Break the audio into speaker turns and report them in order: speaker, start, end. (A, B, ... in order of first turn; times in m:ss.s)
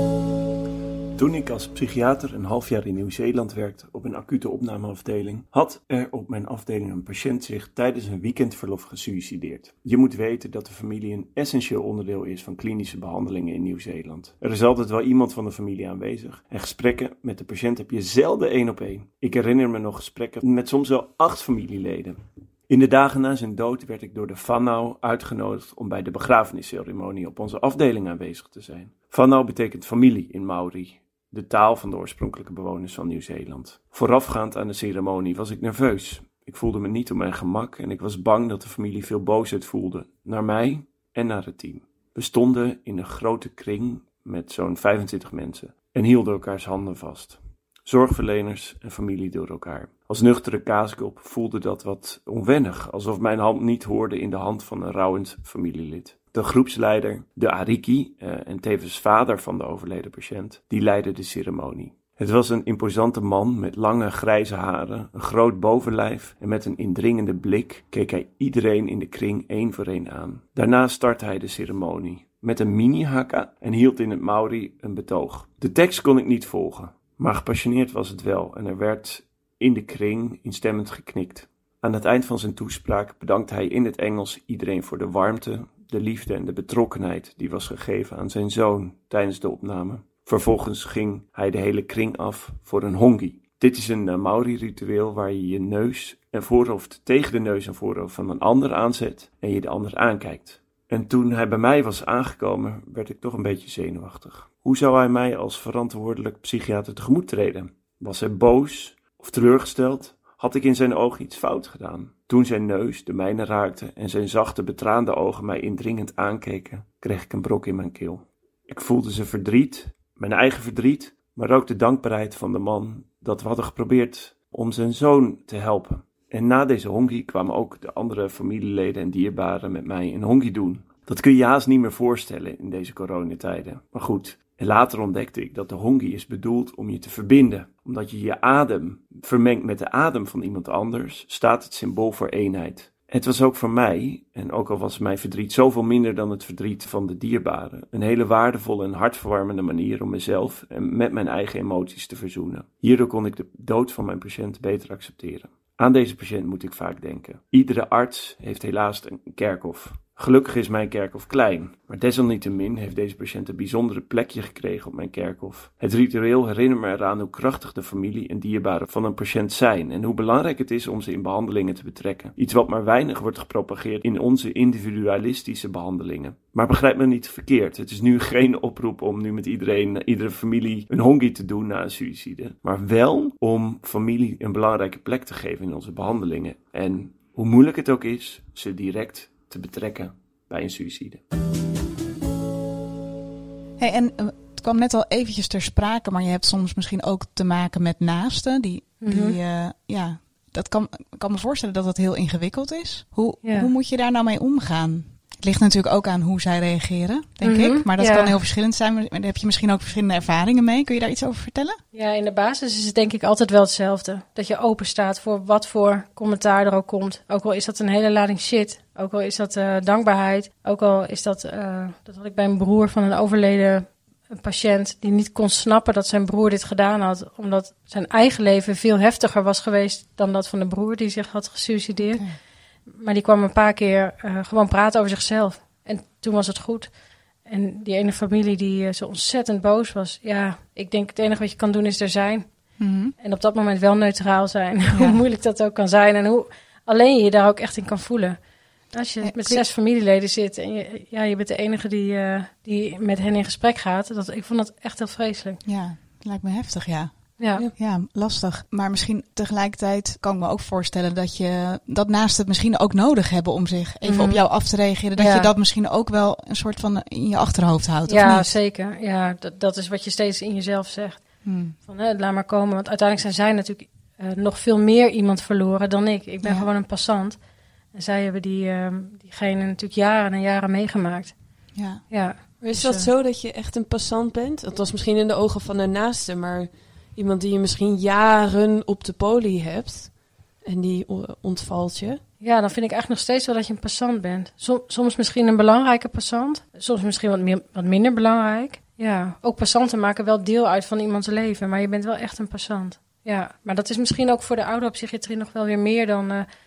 0:01.2-3:11.2 A
3:13.8-3:31.8 B
3:19.0-3:19.4 C
3:23.4-3:23.7 C
3:27.4-3:28.4 C
3:31.9-3:52.2 C
3:52.0-3:52.3 B
3:52.9-3:56.9 C
3:57.4-4:02.5 C
4:02.8-4:03.1 B
4:03.2-4:08.4 C
4:08.9-4:15.6 C
4:09.2-4:09.6 B
4:15.6-4:28.5 B
4:17.4-4:17.6 C
4:24.0-4:24.5 C
4:25.2-4:25.5 C
4:28.1-4:31.2 C
4:31.4-4:31.7 B
4:31.7-4:37.4 C
4:37.9-4:41.3 C
4:41.7-4:42.0 B
4:42.1-4:43.1 C
4:42.6-4:52.2 D
4:52.4-5:06.4 C